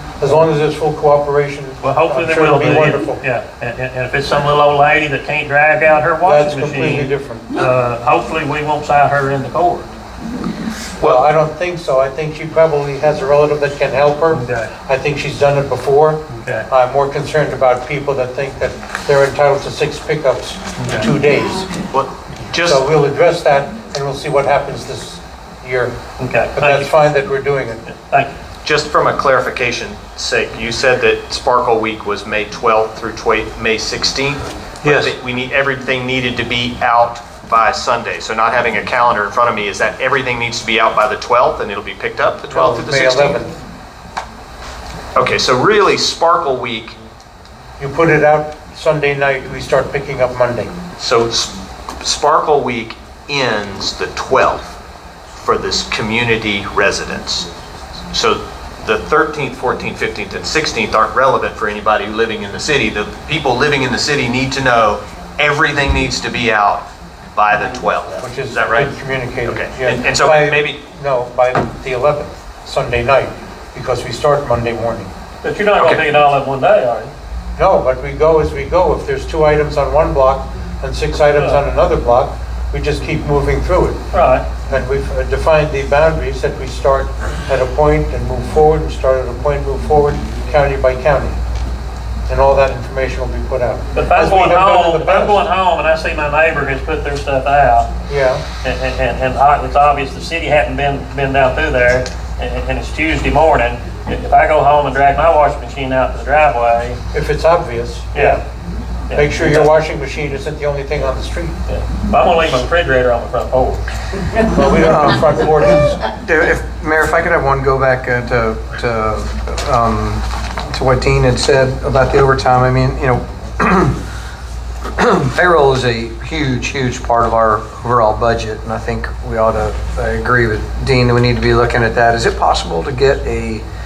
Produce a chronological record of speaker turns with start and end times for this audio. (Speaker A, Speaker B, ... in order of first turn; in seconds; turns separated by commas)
Speaker A: 0.2-3.2, Speaker B: 1.8-9.9, Speaker A: 6.2-7.6, Speaker C: 11.0-11.2, Speaker A: 11.0-21.7, Speaker B: 14.3-14.7, Speaker B: 16.3-16.7, Speaker B: 20.8-21.1, Speaker C: 21.9-22.8, Speaker A: 22.6-25.9, Speaker B: 26.2-26.9, Speaker A: 26.5-27.9, Speaker B: 27.9-28.3, Speaker C: 28.6-43.4, Speaker A: 34.8-35.1, Speaker A: 42.5-43.6, Speaker C: 45.1-47.0, Speaker A: 47.8-50.7, Speaker C: 51.0-54.8, Speaker C: 55.4-57.5, Speaker C: 58.1-68.9, Speaker A: 68.2-75.1, Speaker C: 69.5-70.8, Speaker B: 75.4-77.1, Speaker A: 75.8-76.1, Speaker A: 77.6-84.0, Speaker B: 81.3-81.6, Speaker B: 84.1-84.5, Speaker A: 84.7-91.4, Speaker A: 92.3-95.4, Speaker B: 93.9-97.9, Speaker A: 98.1-98.4, Speaker B: 98.6-107.0, Speaker A: 107.1-108.5, Speaker B: 108.1-108.4, Speaker B: 109.1-109.7, Speaker A: 109.1-111.5, Speaker B: 111.7-113.8, Speaker A: 114.5-116.0, Speaker D: 114.8-115.5, Speaker D: 116.0-124.0, Speaker D: 125.0-133.6